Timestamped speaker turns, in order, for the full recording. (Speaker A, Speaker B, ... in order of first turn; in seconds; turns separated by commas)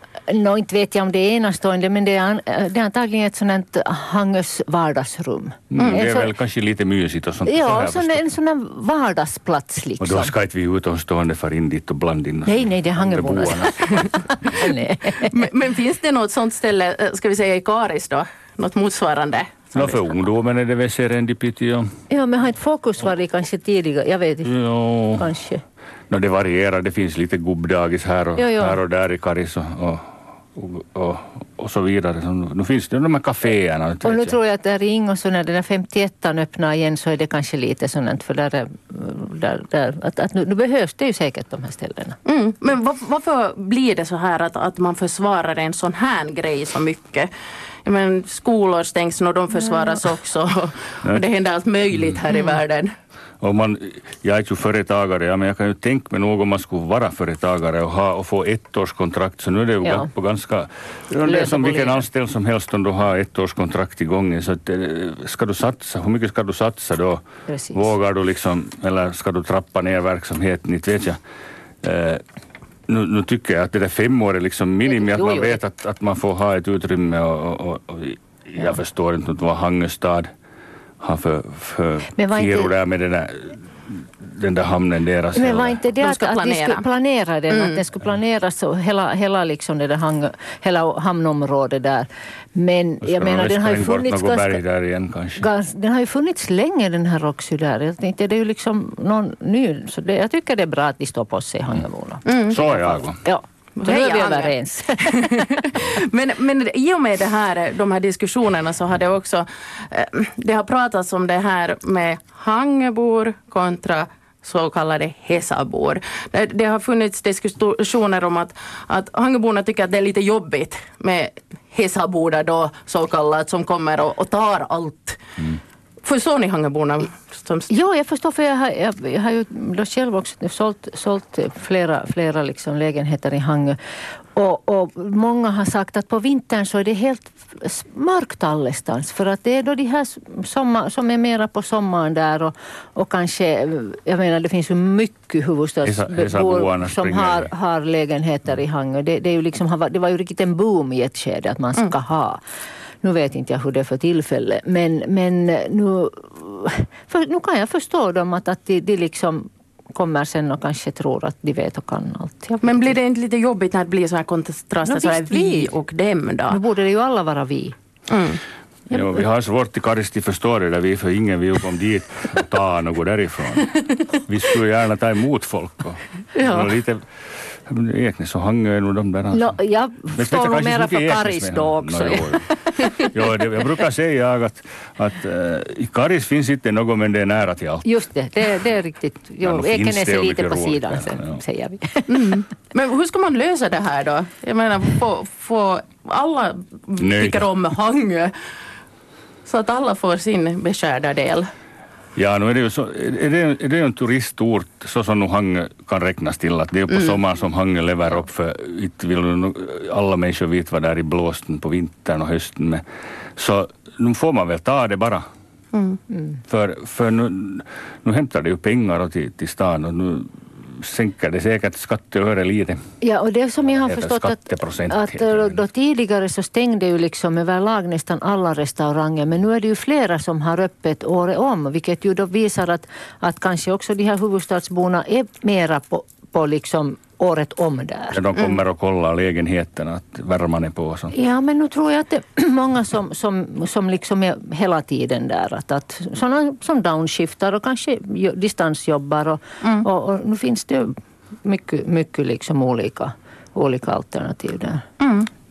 Speaker A: 0.3-6.3, Speaker B: 5.7-8.2, Speaker C: 5.8-6.0, Speaker A: 7.5-10.3, Speaker B: 10.0-14.2, Speaker A: 12.5-15.3, Speaker C: 15.1-20.1, Speaker B: 19.8-21.9, Speaker A: 22.1-24.6, Speaker B: 24.4-25.3, Speaker A: 25.1-25.6, Speaker B: 26.1-34.4, Speaker A: 28.4-28.8, Speaker A: 34.0-42.2, Speaker C: 42.2-47.3, Speaker C: 47.9-52.9, Speaker A: 49.5-50.0, Speaker A: 52.3-52.6, Speaker B: 53.4-71.2, Speaker A: 59.8-60.1, Speaker A: 61.2-62.0, Speaker A: 67.5-67.9, Speaker B: 71.8-72.2, Speaker B: 72.9-80.3, Speaker A: 74.9-75.6, Speaker B: 81.0-85.8, Speaker A: 82.2-82.7, Speaker A: 85.3-94.6, Speaker C: 86.0-86.8, Speaker C: 87.5-87.8, Speaker B: 93.0-95.5, Speaker A: 95.4-105.8, Speaker C: 102.2-102.6, Speaker B: 102.5-103.2, Speaker C: 103.8-125.2, Speaker C: 126.0-127.7, Speaker A: 127.7-133.8, Speaker A: 134.3-152.4, Speaker B: 145.8-147.5, Speaker A: 153.0-162.9, Speaker C: 162.6-166.6, Speaker A: 164.9-165.7, Speaker A: 166.5-167.8, Speaker C: 168.1-168.4, Speaker B: 168.9-179.6, Speaker A: 176.4-176.7, Speaker A: 179.3-183.1, Speaker B: 180.1-187.9, Speaker A: 187.8-192.4, Speaker B: 189.4-191.4, Speaker C: 192.1-198.3, Speaker B: 197.0-197.5, Speaker C: 199.4-201.5, Speaker B: 202.2-212.8, Speaker B: 213.4-215.2, Speaker C: 215.7-216.0, Speaker B: 216.5-222.8, Speaker A: 223.0-238.2, Speaker B: 223.6-225.6, Speaker B: 238.1-241.2, Speaker A: 241.1-254.8, Speaker C: 255.0-255.3